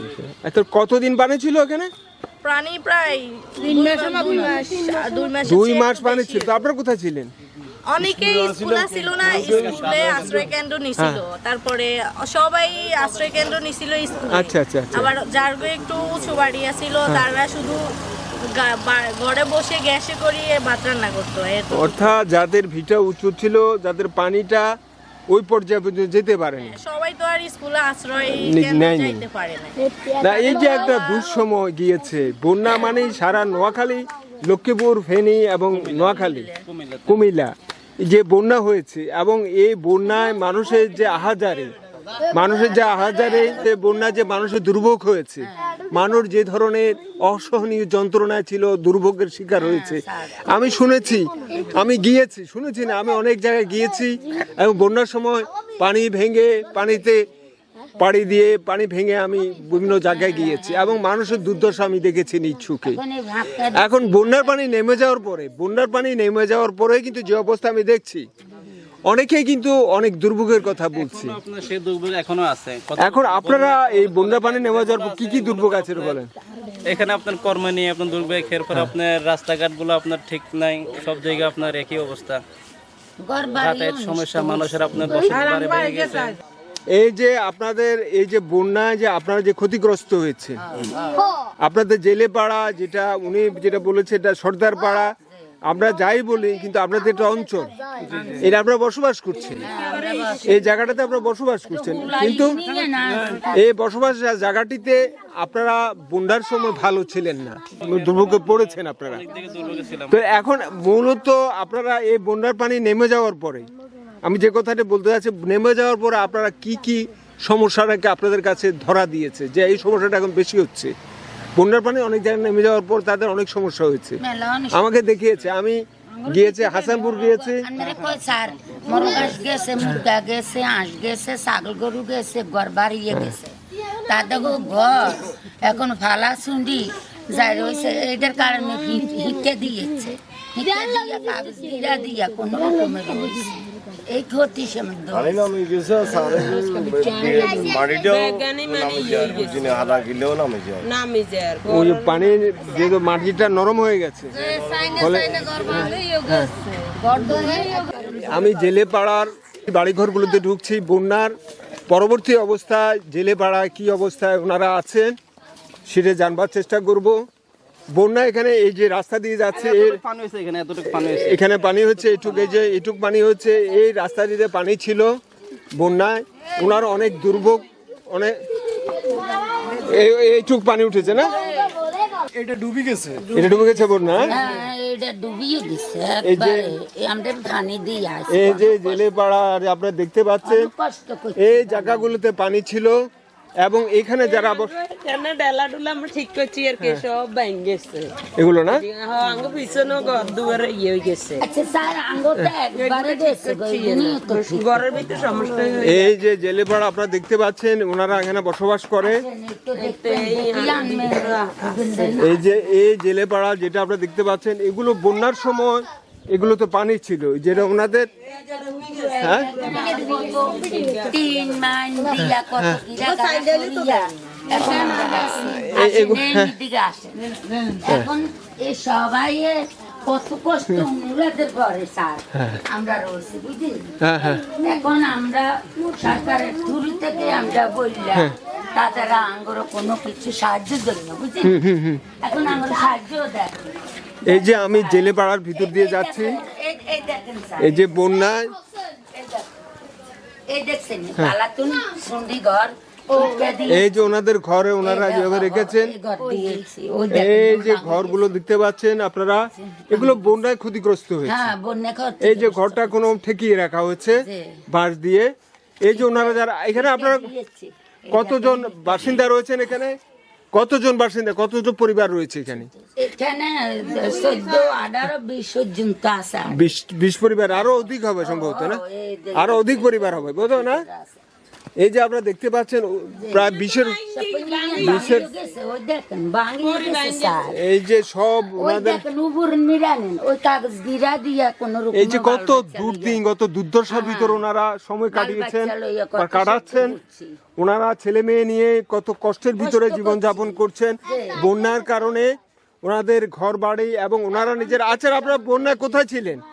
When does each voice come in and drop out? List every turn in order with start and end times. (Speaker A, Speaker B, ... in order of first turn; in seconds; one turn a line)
Speaker A: 0.4-1.9
Speaker B: 2.4-6.5
Speaker A: 5.4-7.3
Speaker B: 7.9-22.1
Speaker C: 9.4-10.5
Speaker A: 11.0-11.2
Speaker A: 14.3-15.1
Speaker A: 17.1-17.3
Speaker A: 21.7-24.7
Speaker A: 25.3-26.8
Speaker B: 26.6-31.2
Speaker A: 28.3-29.2
Speaker A: 30.2-36.5
Speaker C: 35.8-37.2
Speaker A: 37.1-37.5
Speaker A: 38.0-41.7
Speaker A: 42.3-57.2
Speaker D: 49.5-50.4
Speaker A: 58.0-63.0
Speaker D: 62.9-63.9
Speaker A: 63.7-68.2
Speaker A: 69.1-71.4
Speaker C: 71.0-76.2
Speaker A: 73.0-76.3
Speaker C: 76.8-82.4
Speaker D: 83.2-85.3
Speaker C: 83.5-86.4
Speaker E: 85.5-85.9
Speaker A: 86.9-90.6
Speaker D: 90.7-91.2
Speaker A: 91.6-95.1
Speaker A: 95.7-97.7
Speaker D: 98.1-98.4
Speaker A: 98.4-99.6
Speaker D: 99.6-100.7
Speaker E: 99.6-100.6
Speaker A: 100.5-102.5
Speaker D: 101.7-103.6
Speaker A: 103.5-109.2
Speaker C: 107.8-110.2
Speaker A: 110.1-113.7
Speaker A: 114.2-120.9
Speaker A: 121.5-124.2
Speaker D: 124.2-124.8
Speaker A: 124.7-127.7
Speaker D: 126.1-133.6
Speaker D: 134.1-145.5
Speaker F: 145.1-150.8
Speaker E: 146.8-149.9
Speaker E: 150.8-151.9
Speaker A: 151.7-156.5
Speaker F: 154.7-155.0
Speaker E: 155.7-156.5
Speaker D: 157.0-158.3
Speaker A: 158.3-161.3
Speaker A: 161.9-165.1
Speaker A: 165.8-167.2
Speaker A: 167.9-170.0
Speaker C: 169.6-171.4
Speaker A: 171.2-175.1
Speaker A: 175.8-178.4
Speaker A: 179.8-181.3
Speaker F: 182.5-183.2
Speaker A: 183.3-184.3
Speaker D: 184.3-189.0
Speaker A: 186.2-186.7
Speaker A: 188.3-190.7
Speaker D: 190.4-192.1
Speaker A: 191.4-193.0
Speaker A: 193.6-194.7
Speaker E: 194.2-198.1
Speaker A: 198.4-198.8
Speaker E: 198.8-201.4
Speaker D: 200.0-200.3
Speaker D: 201.4-204.8
Speaker E: 202.7-206.1
Speaker A: 205.8-209.2
Speaker D: 209.0-212.4
Speaker E: 209.7-212.1
Speaker A: 212.2-218.1
Speaker E: 218.2-221.6
Speaker A: 219.2-219.6
Speaker D: 219.4-227.1
Speaker A: 222.2-222.8
Speaker E: 222.9-225.1
Speaker A: 224.6-226.5
Speaker E: 227.3-227.8
Speaker D: 227.8-233.9
Speaker A: 234.0-234.4
Speaker D: 234.5-241.6
Speaker A: 241.4-242.0
Speaker D: 242.2-243.6
Speaker A: 244.2-246.4
Speaker D: 244.3-245.0
Speaker D: 245.6-247.8
Speaker A: 247.6-248.5
Speaker D: 249.2-249.4
Speaker D: 250.5-253.8
Speaker A: 253.7-255.9
Speaker D: 254.8-258.2
Speaker A: 257.1-261.5
Speaker D: 259.6-260.2
Speaker D: 261.2-262.9
Speaker A: 262.2-265.3
Speaker D: 264.2-264.6
Speaker A: 265.8-267.3
Speaker D: 265.9-269.2
Speaker A: 268.1-270.0
Speaker A: 270.5-272.7
Speaker D: 272.9-276.6
Speaker E: 273.9-274.7
Speaker A: 276.5-278.8
Speaker D: 278.2-281.2
Speaker A: 279.3-280.8
Speaker A: 281.8-284.0
Speaker D: 283.2-283.5
Speaker E: 283.7-285.1
Speaker D: 284.1-287.6
Speaker A: 284.8-285.3
Speaker E: 286.6-287.4
Speaker A: 287.5-289.0
Speaker D: 288.6-293.2
Speaker A: 291.9-297.0
Speaker D: 293.9-294.4
Speaker D: 295.1-297.4
Speaker A: 297.6-302.3
Speaker D: 299.6-301.4
Speaker A: 302.8-306.4